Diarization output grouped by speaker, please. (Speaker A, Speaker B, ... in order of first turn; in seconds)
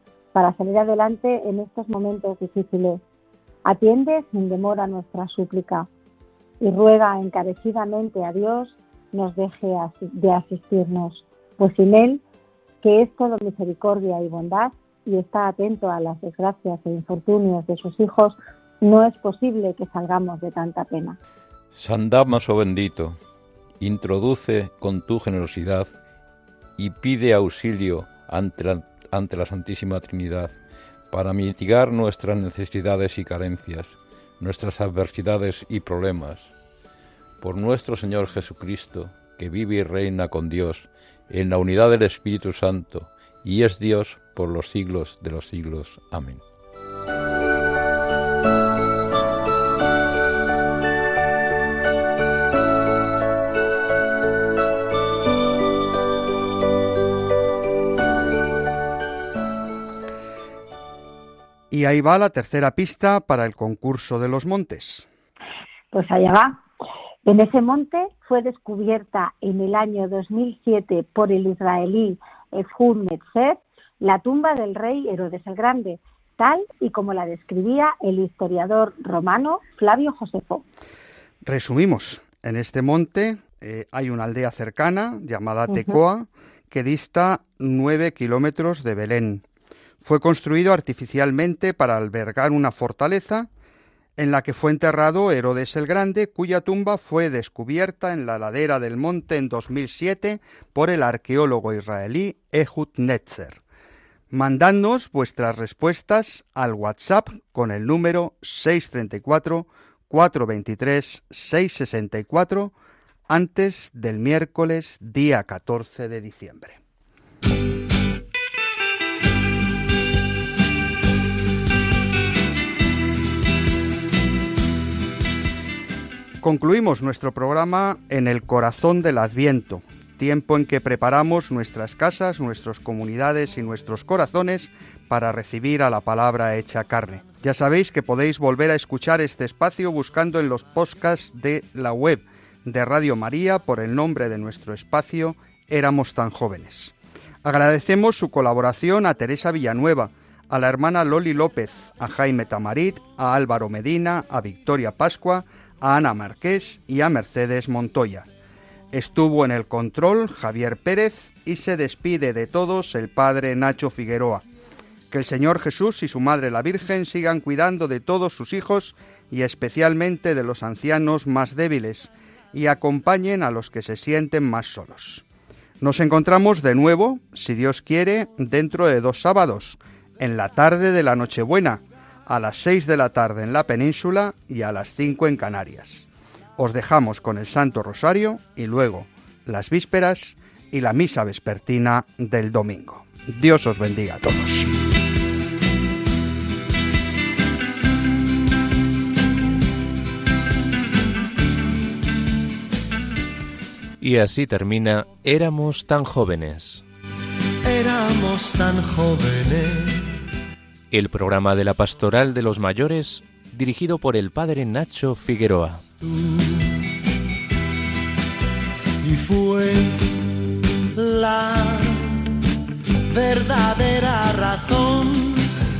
Speaker A: 0.3-3.0, 3.6-5.9, 6.6-12.2, 12.8-21.2, 65.9-66.6, 67.2-80.6
Speaker B: 21.7-23.2, 23.8-25.9, 26.8-30.6, 31.1-36.5, 37.4-46.4
Speaker C: 61.7-65.1, 81.4-89.4, 90.0-93.5, 94.2-103.6, 104.3-112.7, 113.3-116.8, 126.4-158.3, 158.9-164.4, 165.1-175.2, 175.8-194.7
Speaker D: 204.0-206.8, 210.9-215.8
Speaker E: 207.6-209.9, 216.0-216.7, 219.0-220.1, 220.9-222.2, 223.1-225.4